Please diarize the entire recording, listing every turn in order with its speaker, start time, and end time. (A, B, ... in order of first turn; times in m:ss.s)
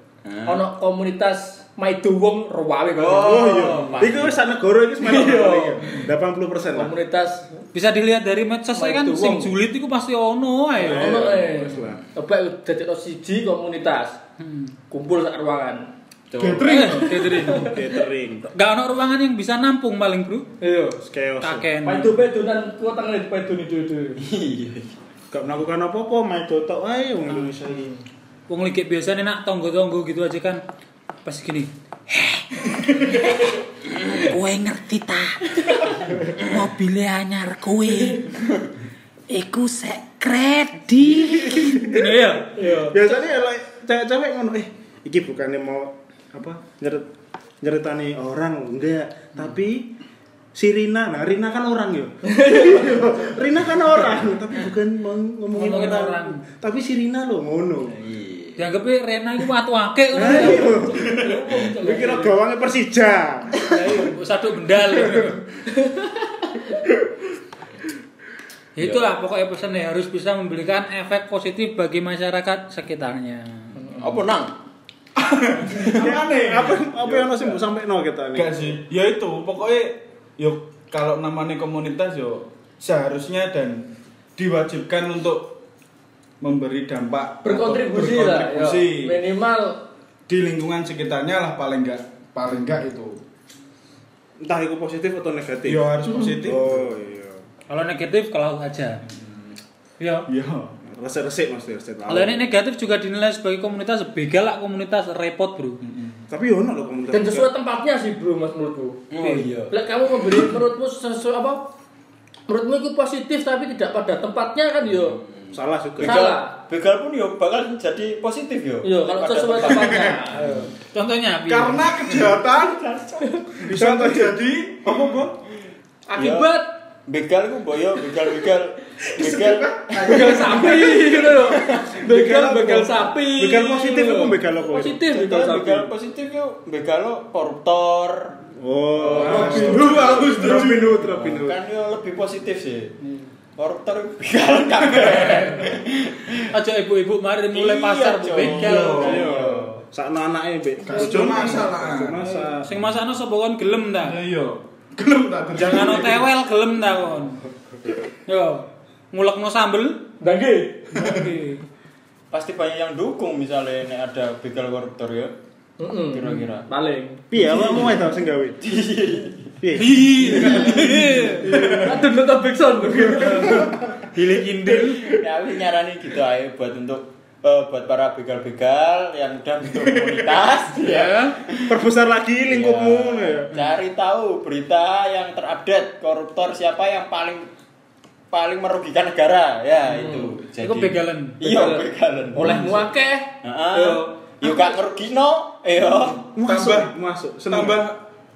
0:00.2-0:00.6 A
0:00.4-0:03.8 B
0:02.9-0:04.4 A
0:03.2-0:06.9 C
0:05.0-0:06.0 B
0:06.7-0:07.5 B
0:07.7-0:11.2 D
0:08.8-0:09.5 B
0:10.8-0:12.0 C
0:10.8-0:14.2 B
0:14.4-0:14.8 D
0:14.9-0:15.9 B
0:16.3-0:16.9 A
0:16.4-0:17.3 E
0:16.6-0:17.8 D
0:17.4-0:17.7 B
0:17.4-0:18.5 C
0:18.5-0:20.5 D
0:20.6-0:21.0 B
0:21.0-0:21.7 C
0:21.4-0:22.2 D
0:21.8-0:24.2 B
0:24.2-0:24.9 A
0:25.3-0:27.9 C
0:28.5-0:30.6 D
0:31.2-0:33.4 D
0:33.9-0:34.3 A
0:34.1-0:38.2 D
0:39.3-0:42.6 D
0:41.2-0:42.1 C
0:42.5-0:43.0 B
0:42.8-0:47.1 C
0:47.6-0:49.9 C
0:50.5-0:58.0 C
0:52.3-0:53.5 B
0:55.5-0:56.4 D
0:57.9-0:58.6 A
0:58.6-1:00.8 D
1:00.1-1:04.0 C
1:00.2-1:02.4 B
1:03.6-1:05.4 D
1:05.0-1:05.3 C
1:05.7-1:06.3 B
1:08.8-1:13.7 D
1:08.8-1:09.0 A
1:13.9-1:14.6 A
1:15.2-1:17.6 E
1:15.8-1:16.0 A
1:16.0-1:18.7 C
1:18.3-1:23.8 E
1:24.4-1:25.6 E
1:26.4-1:29.2 E
1:27.4-1:29.8 B
1:30.3-1:33.2 E
1:34.4-1:37.4 C
1:35.6-1:36.9 E
1:37.7-1:39.0 D
1:40.0-1:40.3 D
1:40.3-1:40.7 E
1:40.8-1:42.4 C
1:42.1-1:45.8 D
1:45.8-1:46.2 E
1:46.3-1:47.5 C
1:47.1-1:49.0 B
1:49.1-1:49.8 A
1:49.2-1:49.5 D
1:49.7-1:51.7 B
1:52.5-1:55.2 B
1:55.5-1:56.2 C
1:56.0-1:56.5 B
1:56.0-2:00.7 A
1:58.8-2:00.7 B
1:59.7-2:00.2 E
2:00.9-2:02.2 D
2:01.4-2:02.9 E
2:02.2-2:03.5 A
2:03.2-2:03.6 B
2:03.6-2:05.4 E
2:03.7-2:04.4 C
2:06.1-2:06.8 B
2:06.2-2:12.0 A
2:09.1-2:11.1 E
2:10.0-2:15.9 B
2:12.0-2:13.1 E
2:13.4-2:15.0 C
2:15.1-2:22.9 A
2:18.6-2:21.6 C
2:19.1-2:21.0 E
2:23.6-2:26.5 A
2:26.5-2:29.2 D
2:27.5-2:29.7 A
2:28.5-2:29.7 E
2:28.9-2:32.7 C
2:30.8-2:32.3 E
2:32.6-2:34.2 D
2:34.0-2:36.3 E
2:35.5-2:37.4 D
2:38.3-2:40.1 D
2:40.2-2:41.1 B
2:40.9-2:41.6 D
2:42.3-2:45.3 A
2:45.8-2:47.2 B
2:46.1-2:46.7 A
2:47.3-2:48.6 C
2:47.4-2:48.1 A
2:48.6-2:49.6 A
2:49.6-2:50.4 C
2:49.8-2:51.5 D
2:50.3-2:51.0 A
2:51.4-2:53.7 B
2:53.2-2:55.2 D
2:53.3-2:54.0 C
2:55.1-3:01.7 A
2:59.9-3:00.2 E
3:00.8-3:01.4 D
3:01.7-3:03.6 C
3:02.5-3:07.5 A
3:08.3-3:12.8 A
3:09.9-3:10.3 B
3:10.6-3:11.4 D
3:11.4-3:14.7 B
3:12.3-3:12.8 C
3:13.4-3:16.2 A
3:16.4-3:17.8 C
3:16.4-3:16.9 E
3:17.5-3:18.0 E